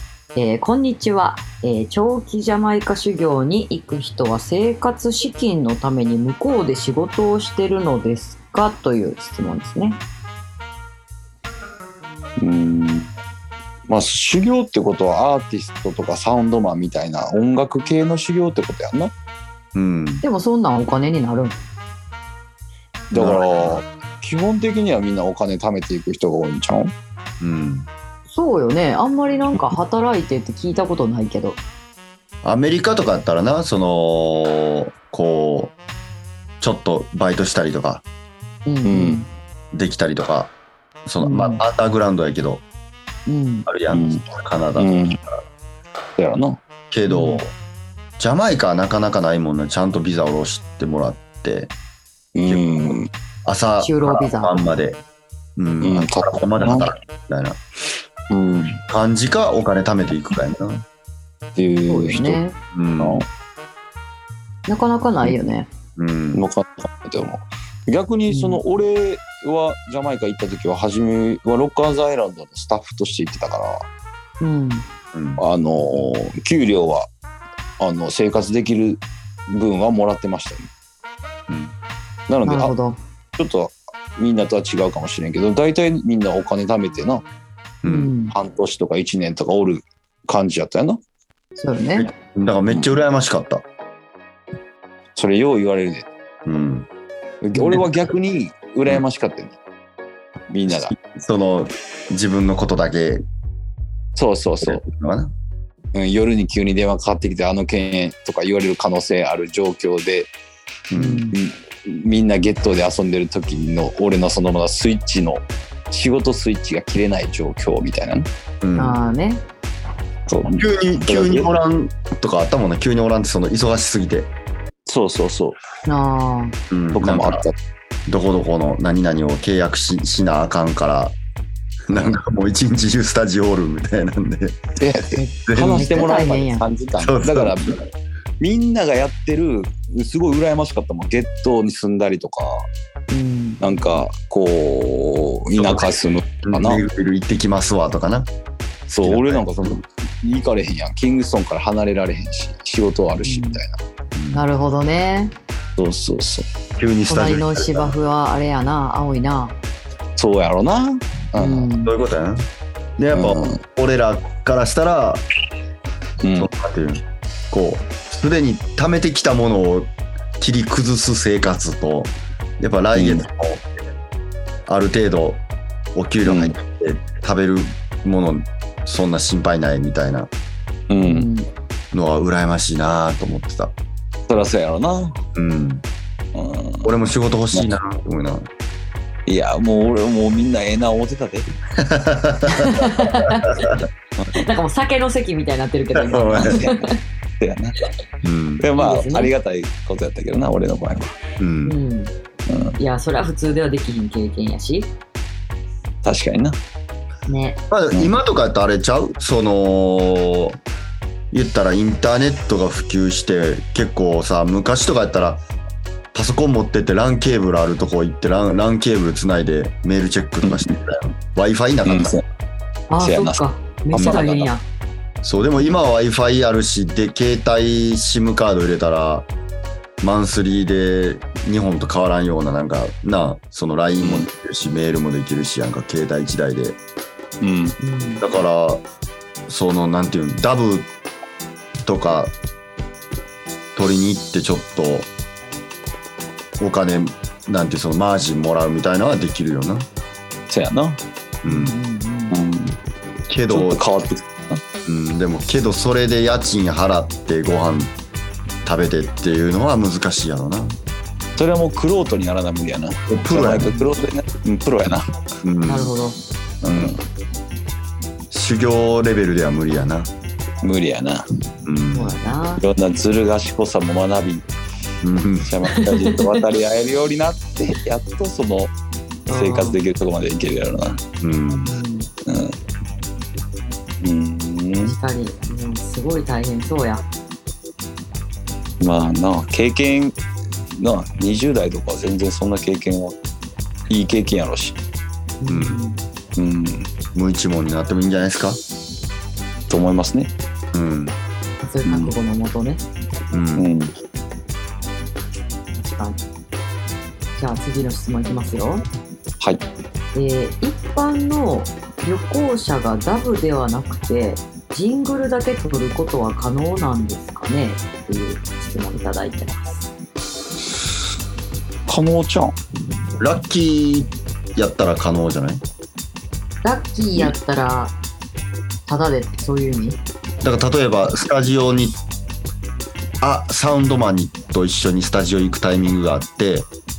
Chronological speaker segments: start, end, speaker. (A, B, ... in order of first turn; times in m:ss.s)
0:00.4-0:10.0 A
0:12.4-0:13.1 B
0:13.9-0:19.1 B
0:19.8-0:20.2 C
0:20.2-0:21.6 A
0:23.1-0:26.9 B
0:23.1-0:23.5 C
0:27.4-0:27.9 C
0:28.3-0:31.6 A
0:32.4-0:35.7 C
0:36.6-0:38.0 C
0:38.7-0:39.3 A
0:38.9-0:39.2 B
0:39.7-0:40.5 C
0:41.0-0:42.6 C
0:41.2-0:41.6 A
0:43.3-0:43.7 A
0:43.7-0:44.9 C
0:43.9-0:44.2 B
0:44.8-0:45.2 B
0:46.2-0:46.6 B
0:46.9-0:47.5 C
0:47.1-0:47.4 A
0:48.2-0:51.7 C
0:52.4-0:53.1 B
0:53.4-0:55.0 C
0:53.8-0:54.6 A
0:55.6-0:57.6 C
0:55.8-0:56.9 B
0:58.3-0:58.8 B
0:58.9-1:00.9 C
1:01.6-1:02.4 B
1:01.9-1:02.6 A
1:02.7-1:03.2 C
1:03.0-1:03.3 B
1:04.7-1:05.7 A
1:06.0-1:06.5 C
1:06.3-1:13.8 B
1:08.3-1:08.6 A
1:14.4-1:14.9 A
1:15.1-1:15.4 C
1:15.4-1:17.1 B
1:17.8-1:20.7 B
1:21.5-1:21.8 C
1:22.3-1:22.7 B
1:22.4-1:23.0 A
1:23.4-1:27.2 B
1:27.8-1:28.1 C
1:27.8-1:28.4 A
1:28.3-1:31.0 B
1:31.6-1:32.1 A
1:32.0-1:33.6 C
1:35.2-1:36.1 B
1:36.5-1:36.9 C
1:37.4-1:39.6 B
1:37.6-1:37.8 A
1:40.5-1:40.9 B
1:40.7-1:43.2 C
1:44.2-1:44.8 B
1:44.6-1:45.3 C
1:45.9-1:50.3 B
1:50.9-1:51.3 C
1:51.0-1:51.4 A
1:51.3-1:58.3 B
1:58.6-1:59.0 C
1:58.8-1:59.4 A
2:00.3-2:01.5 B
2:00.6-2:04.3 C
2:04.9-2:05.6 B
2:05.9-2:06.6 A
2:06.7-2:07.5 C
2:07.0-2:07.6 B
2:08.1-2:11.2 C
2:11.9-2:14.6 C
2:14.8-2:17.8 B
2:15.2-2:16.7 A
2:15.5-2:16.0 C
2:17.0-2:17.9 C
2:18.4-2:22.7 B
2:23.1-2:23.6 A
2:23.6-2:26.8 B
2:25.6-2:25.9 C
2:26.4-2:28.3 C
2:28.9-2:33.8 B
2:29.0-2:29.8 C
2:33.2-2:33.6 A
2:34.2-2:34.4 C
2:34.3-2:35.4 A
2:35.8-2:36.5 B
2:36.8-2:37.9 C
2:37.1-2:39.6 A
2:40.2-2:41.7 B
2:41.4-2:41.9 A
2:41.8-2:45.2 C
2:43.1-2:43.6 B
2:46.2-2:46.5 B
2:46.4-2:53.7 C
2:53.0-2:53.2 B
2:54.7-2:55.4 C
2:56.0-3:00.3 C
2:56.2-2:56.6 B
3:00.9-3:01.3 B
3:01.0-3:01.5 A
3:01.9-3:03.7 C
3:04.3-3:05.2 B
3:05.4-3:05.8 C
3:06.4-3:06.9 B
3:06.8-3:08.5 C
3:09.3-3:11.5 B
3:11.8-3:13.8 C
3:12.5-3:13.8 A
3:14.3-3:17.0 A
3:16.0-3:16.7 C
3:16.4-3:16.9 B
3:17.4-3:17.8 B
3:18.2-3:18.7 C
3:18.6-3:21.2 B
3:18.8-3:19.3 A
3:21.4-3:21.8 C
3:21.7-3:22.1 A
3:22.5-3:22.8 B
3:22.8-3:24.9 A
3:26.0-3:26.6 B
3:27.3-3:27.6 A
3:27.7-3:30.6 C
3:31.3-3:35.4 C
3:36.1-3:42.1 C
3:40.4-3:40.7 B
3:41.9-3:42.2 B
3:42.9-3:44.6 A
3:43.0-3:43.4 B
3:43.9-3:44.5 B
3:45.2-3:49.3 C
3:50.0-3:56.8 C
3:54.0-3:54.3 B
3:57.4-3:57.8 B
3:57.8-3:58.2 A
3:58.2-3:58.8 C
3:59.5-4:00.9 C
4:01.8-4:02.3 C
4:03.8-4:05.1 C
4:06.6-4:09.9 C
4:10.5-4:11.0 B
4:11.4-4:11.7 C
4:11.5-4:12.4 A
4:12.3-4:12.8 B
4:13.3-4:13.8 C
4:13.5-4:14.6 B
4:14.9-4:17.9 C
4:18.6-4:20.8 C
4:21.4-4:25.1 B
4:23.1-4:23.7 C
4:25.4-4:25.9 C
4:25.7-4:26.2 A
4:26.6-4:27.0 B
4:26.6-4:26.9 C
4:28.3-4:30.1 C
4:30.6-4:31.3 B
4:31.6-4:32.2 C
4:31.9-4:32.6 A
4:32.6-4:34.4 B
4:35.0-4:35.5 C
4:35.4-4:38.7 B
4:35.7-4:36.4 A
4:39.3-4:39.8 A
4:39.3-4:41.0 B
4:41.2-4:41.7 C
4:41.6-4:42.1 A
4:42.2-4:42.6 B
4:44.0-4:45.0 B
4:44.8-4:47.0 A
4:48.8-4:50.2 B
4:50.7-4:53.2 B
4:53.9-4:54.8 B
4:55.4-4:56.0 A
4:55.5-4:55.8 C
4:56.4-4:56.9 B
4:57.2-4:58.6 C
4:59.7-5:00.3 B
5:00.7-5:01.2 C
5:01.6-5:02.8 A
5:01.9-5:02.1 B
5:03.3-5:03.7 C
5:03.6-5:03.9 B
5:05.8-5:06.2 A
5:07.4-5:08.8 A
5:10.2-5:19.9 A
5:21.9-5:22.6 B
5:23.2-5:25.6 C
5:26.6-5:28.0 A
5:28.9-5:30.0 A
5:30.4-5:32.0 C
5:33.2-5:36.7 C